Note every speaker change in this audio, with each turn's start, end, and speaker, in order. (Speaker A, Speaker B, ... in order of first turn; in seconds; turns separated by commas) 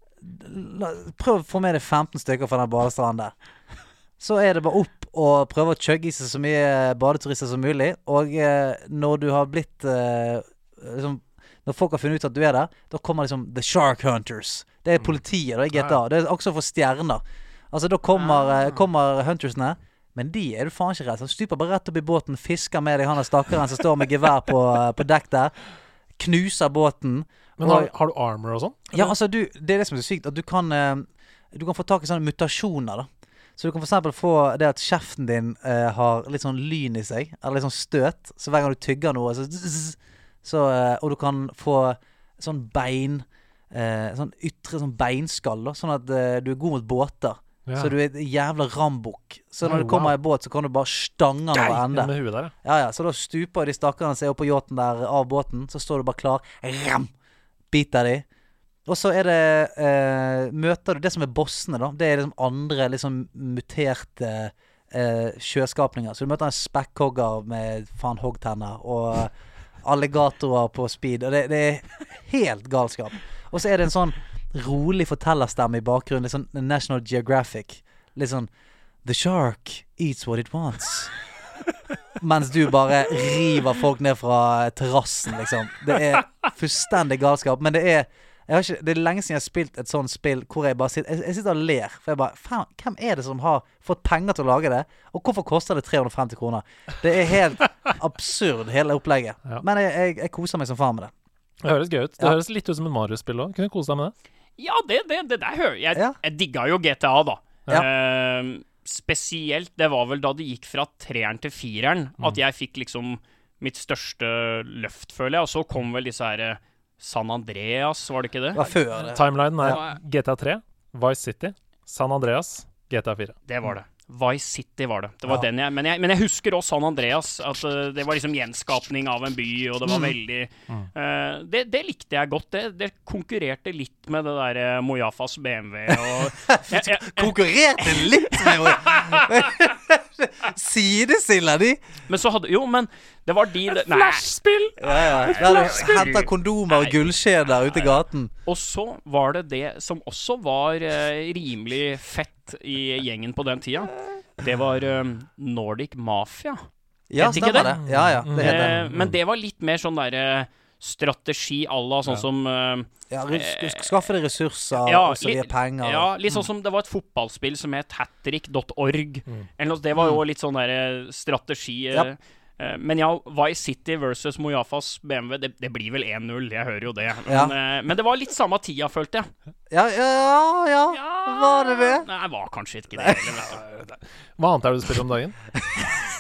Speaker A: 0.2-3.3, Speaker A: 4.2-25.6, Speaker B: 15.7-16.0, Speaker C: 18.1-18.5, Speaker A: 26.2-27.9, Speaker B: 27.6-29.1, Speaker A: 28.9-52.1, Speaker B: 47.7-47.9, Speaker B: 49.6-50.1, Speaker B: 51.5-52.5, Speaker A: 52.6-57.1, Speaker A: 57.7-58.2, Speaker A: 58.9-69.3, Speaker A: 69.8-78.5, Speaker A: 79.0-81.1, Speaker A: 82.2-101.1, Speaker B: 101.6-104.1, Speaker C: 104.6-118.6, Speaker A: 118.5-119.8, Speaker B: 119.1-123.4, Speaker C: 119.6-120.0, Speaker C: 123.5-138.9, Speaker A: 129.8-130.2, Speaker A: 135.9-141.8, Speaker C: 142.1-144.3, Speaker B: 143.7-146.1, Speaker C: 144.8-146.9, Speaker A: 144.8-148.3, Speaker C: 147.7-156.7, Speaker A: 157.1-158.8, Speaker C: 157.2-157.8, Speaker B: 157.2-159.2, Speaker C: 158.3-163.9, Speaker A: 163.1-166.1, Speaker C: 164.7-179.3, Speaker A: 177.3-177.5, Speaker A: 179.7-182.1, Speaker C: 180.9-183.6, Speaker A: 182.9-183.3, Speaker B: 183.5-185.4